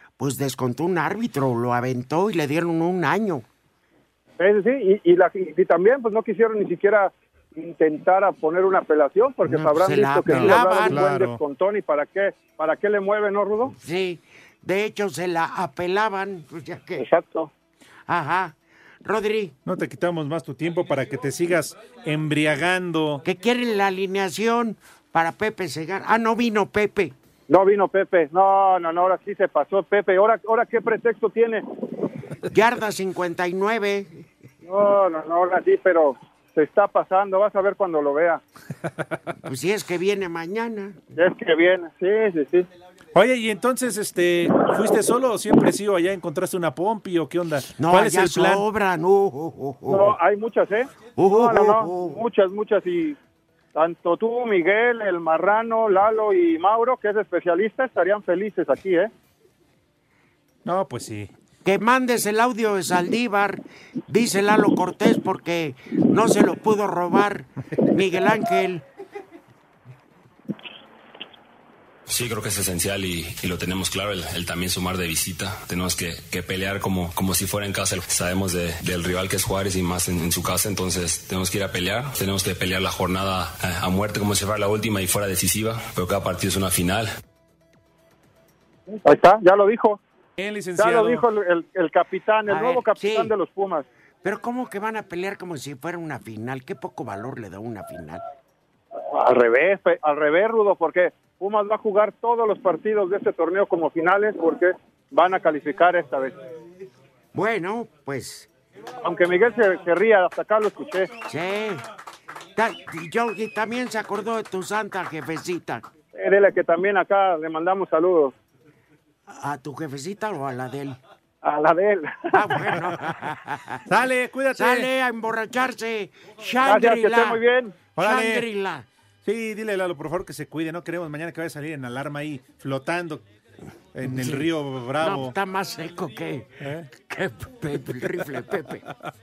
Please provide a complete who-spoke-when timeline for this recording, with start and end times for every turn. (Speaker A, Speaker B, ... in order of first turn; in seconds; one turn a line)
Speaker A: 0.2-3.4
Speaker B: 4.4-13.7
Speaker A: 9.4-11.0
Speaker C: 10.3-11.4
Speaker A: 13.6-17.1
Speaker B: 17.0-17.5
Speaker A: 18.1-19.5
Speaker C: 19.6-23.2
Speaker A: 23.2-27.1
Speaker B: 27.5-31.6
Speaker A: 32.5-34.2
Speaker B: 34.6-38.4
Speaker A: 39.4-41.0
Speaker B: 41.1-42.7
Speaker C: 43.1-48.6
Speaker A: 47.8-50.1
Speaker B: 49.9-53.2
Speaker A: 51.2-52.2
Speaker B: 53.7-59.1
Speaker C: 60.6-61.3
Speaker A: 61.6-68.8
Speaker D: 72.1-87.1
Speaker B: 88.9-90.0
Speaker C: 90.4-91.2
Speaker B: 90.8-93.8
Speaker A: 92.5-93.3
Speaker A: 94.2-98.2
Speaker B: 99.0-106.4
Speaker A: 107.3-108.5
Speaker B: 109.0-111.1
Speaker A: 111.2-111.8
Speaker A: 112.5-115.8
Speaker B: 116.1-118.3
Speaker A: 119.3-121.0
Speaker B: 121.4-122.6
Speaker A: 122.3-123.9
Speaker C: 123.9-124.9
Speaker A: 124.5-127.4
Speaker B: 126.6-127.8
Speaker C: 128.0-128.4
Speaker A: 128.0-128.9
Speaker C: 129.2-133.2
Speaker C: 133.9-135.3
Speaker A: 134.0-138.8